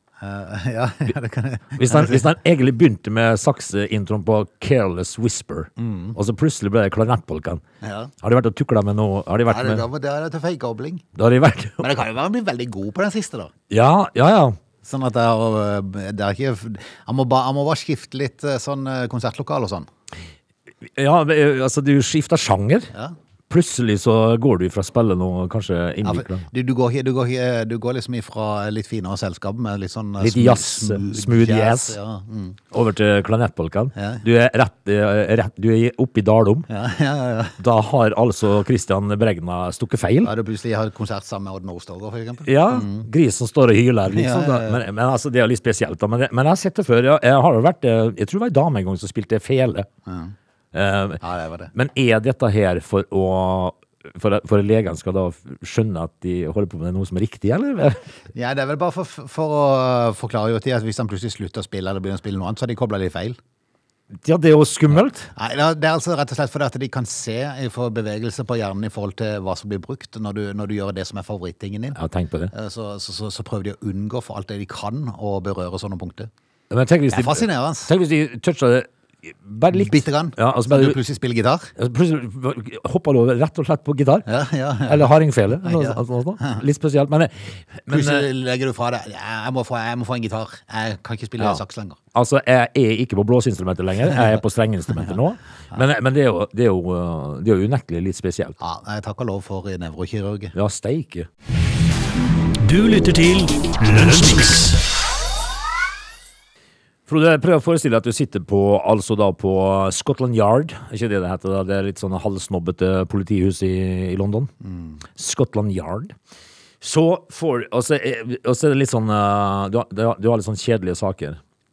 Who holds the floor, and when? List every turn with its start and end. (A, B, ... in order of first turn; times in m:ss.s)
0:00.2-0:02.3 A
0:01.8-0:07.6 B
0:05.8-0:06.2 A
0:07.8-0:08.1 A
0:08.2-0:09.8 B
0:09.5-0:11.0 A
0:11.1-0:11.9 B
0:11.8-0:13.5 A
0:13.7-0:14.6 B
0:14.8-0:19.9 A
0:20.8-0:22.9 B
0:23.5-0:26.5 B
0:26.0-0:32.6 A
0:30.2-0:32.0 B
0:32.7-0:36.7 B
0:33.9-0:34.2 A
0:36.7-0:37.6 A
0:37.6-0:40.3 B
0:40.2-0:43.1 A
0:42.4-0:49.9 B
0:44.1-0:44.8 A
0:50.0-0:50.3 A
0:50.7-0:51.2 B
0:51.2-0:51.7 A
0:51.7-0:58.0 B
0:58.3-1:03.4 A
1:04.1-1:05.3 B
1:05.3-1:12.0 A
1:11.9-1:12.5 B
1:12.5-1:16.3 A
1:16.7-1:21.0 B
1:17.1-1:17.9 A
1:19.7-1:21.7 A
1:21.8-1:24.2 B
1:24.2-1:26.6 A
1:24.8-1:28.3 B
1:27.9-1:32.0 A
1:32.1-1:38.6 B
1:38.6-1:40.5 A
1:40.5-1:41.3 B
1:42.6-1:44.8 C
1:47.1-1:54.5 B
1:54.6-1:55.0 A
1:55.1-1:56.1 B
1:56.8-2:01.4 B